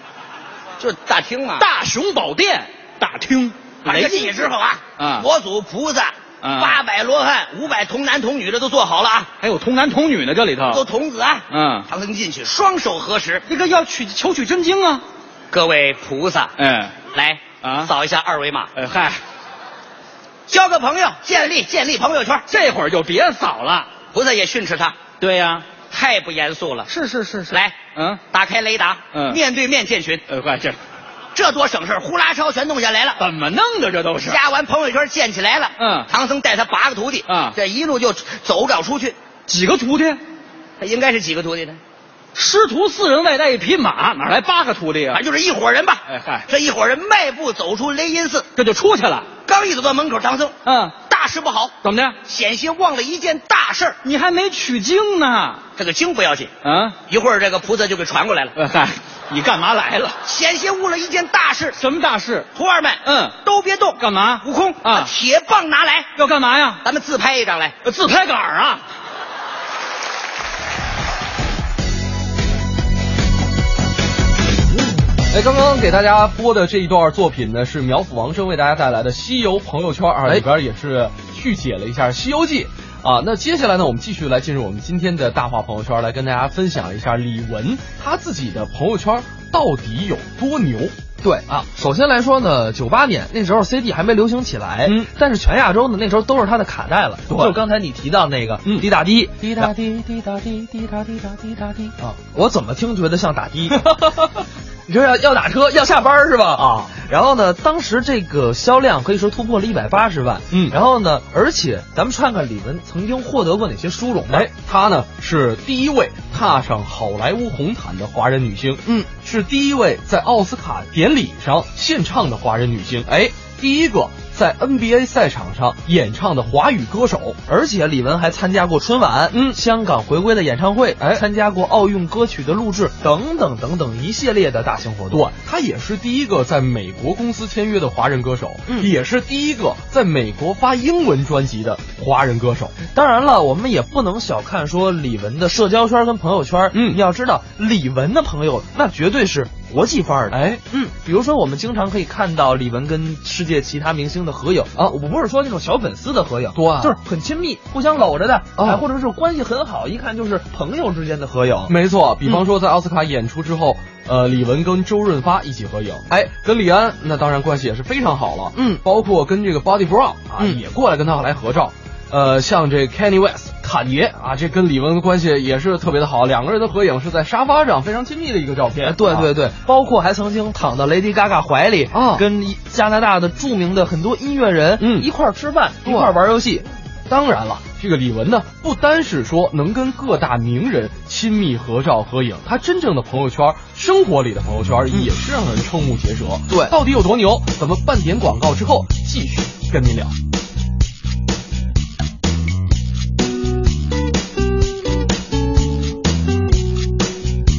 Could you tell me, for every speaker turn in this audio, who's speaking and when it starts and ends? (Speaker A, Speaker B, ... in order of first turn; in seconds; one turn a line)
Speaker A: 0.8-1.6
Speaker B: 1.6-5.3
Speaker A: 3.8-9.3
Speaker B: 6.4-6.8
Speaker B: 9.4-10.8
Speaker A: 10.7-13.4
Speaker B: 11.5-11.9
Speaker B: 13.5-15.0
Speaker A: 15.5-16.5
Speaker B: 16.6-17.0
Speaker A: 17.1-18.7
Speaker B: 17.6-17.9
Speaker B: 18.7-19.2
Speaker A: 20.5-22.4
Speaker B: 22.5-23.9
Speaker A: 24.1-25.0
Speaker B: 25.2-25.7
Speaker A: 25.9-26.9
Speaker B: 26.9-28.2
Speaker A: 27.5-27.8
Speaker A: 28.3-30.2
Speaker B: 29.1-29.4
Speaker B: 30.3-30.8
Speaker A: 31.3-33.2
Speaker B: 33.2-34.4
Speaker A: 34.2-39.1
Speaker B: 35.8-36.1
Speaker B: 37.3-37.6
Speaker B: 39.5-40.2
Speaker A: 40.8-41.8
Speaker B: 42.3-45.2
Speaker A: 45.1-48.5
Speaker B: 46.1-46.5
Speaker B: 48.5-49.3
Speaker A: 49.5-51.7
Speaker B: 50.6-51.0
Speaker B: 51.8-52.2
Speaker A: 52.2-54.0
Speaker B: 54.0-55.6
Speaker A: 55.8-56.5
Speaker B: 56.6-57.0
Speaker A: 57.1-58.5
Speaker B: 58.5-60.1
Speaker A: 60.2-61.8
Speaker B: 61.8-62.5
Speaker A: 62.5-66.1
Speaker B: 63.0-63.4
Speaker B: 64.0-65.1
Speaker B: 66.2-66.8
Speaker A: 66.8-67.8
Speaker B: 67.8-68.8
Speaker C: 75.3-90.9
Speaker D: 91.2-99.8
Speaker C: 97.3-97.5
Speaker C: 99.4-101.9
Speaker D: 102.0-103.9
Speaker C: 103.8-104.4
Speaker D: 104.9-114.5
Speaker C: 106.6-106.9
Speaker C: 114.3-127.4
Speaker D: 127.5-135.3
Speaker C: 129.3-129.6
Speaker C: 135.1-142.8
Speaker D: 142.9-161.7
Speaker C: 146.7-147.0
Speaker C: 150.3-150.6
Speaker C: 156.5-157.0
Speaker C: 158.6-158.8
Speaker C: 161.7-179.3
Speaker D: 168.5-168.8
Speaker D: 178.8-186.6
Speaker C: 181.9-182.2
Speaker C: 184.8-185.1
Speaker C: 185.8-186.1
Speaker C: 187.1-200.1